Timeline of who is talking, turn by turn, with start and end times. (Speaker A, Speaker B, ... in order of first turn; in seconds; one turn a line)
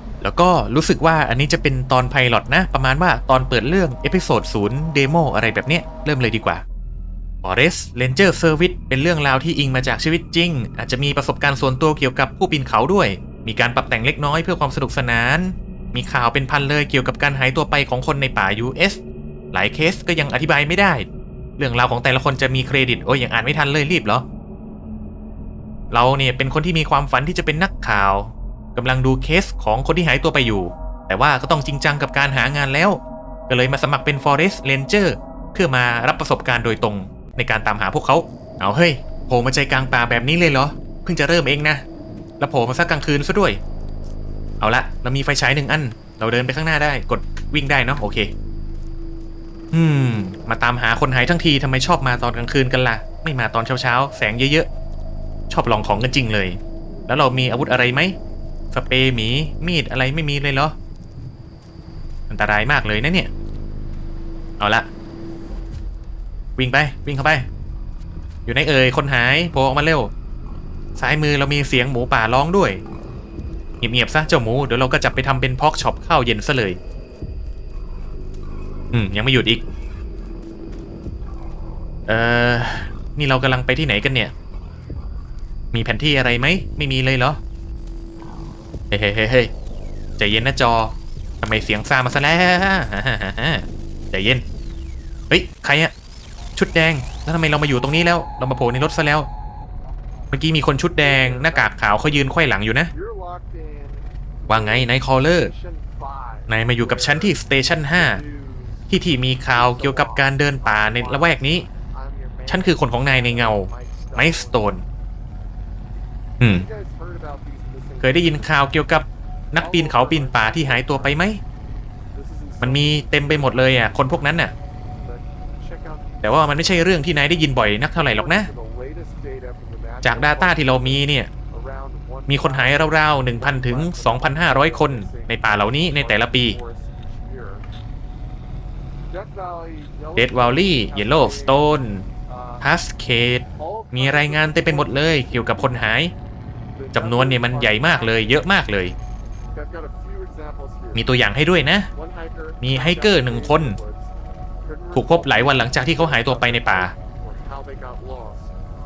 Speaker A: 0.2-6.6
Speaker A: 7.4-19.0
Speaker A: 19.5-21.1
Speaker A: 21.6-24.2
Speaker A: 25.9-41.8
Speaker A: 42.4-43.6
Speaker A: 44.6-48.3
Speaker A: 49.7-54.7
Speaker A: 55.5-58.1
Speaker A: 58.7-60.8
Speaker A: 62.3-63.3
Speaker A: 64.6-64.9
Speaker A: 66.6-67.5
Speaker A: 68.5-70.1
Speaker A: 71.0-72.8
Speaker A: 73.8-76.8
Speaker A: 78.9-79.6
Speaker A: 82.1-84.3
Speaker A: 85.7-87.4
Speaker A: 88.9-89.5
Speaker A: 90.2-94.4
Speaker A: 95.3-95.9
Speaker A: 96.6-99.3
Speaker A: 100.3-102.9
Speaker B: 101.0-101.9
Speaker B: 102.9-107.4
Speaker A: 104.5-105.5
Speaker A: 106.5-108.2
Speaker B: 107.9-108.8
Speaker A: 108.9-111.7
Speaker B: 109.5-114.7
Speaker A: 112.5-114.8
Speaker A: 116.4-116.7
Speaker B: 116.5-118.5
Speaker A: 118.0-121.4
Speaker B: 119.6-121.2
Speaker B: 122.1-123.7
Speaker A: 122.6-124.5
Speaker B: 125.0-126.9
Speaker A: 126.2-128.5
Speaker B: 127.9-137.7
Speaker A: 130.0-131.3
Speaker A: 132.3-136.6
Speaker B: 139.1-141.8
Speaker A: 140.2-142.1
Speaker B: 142.3-142.7
Speaker A: 142.6-146.1
Speaker B: 143.6-145.9
Speaker B: 146.8-148.4
Speaker A: 146.9-148.9
Speaker B: 149.5-151.1
Speaker A: 150.9-151.9
Speaker B: 151.9-154.1
Speaker A: 152.6-153.8
Speaker B: 154.7-158.5
Speaker A: 154.9-156.9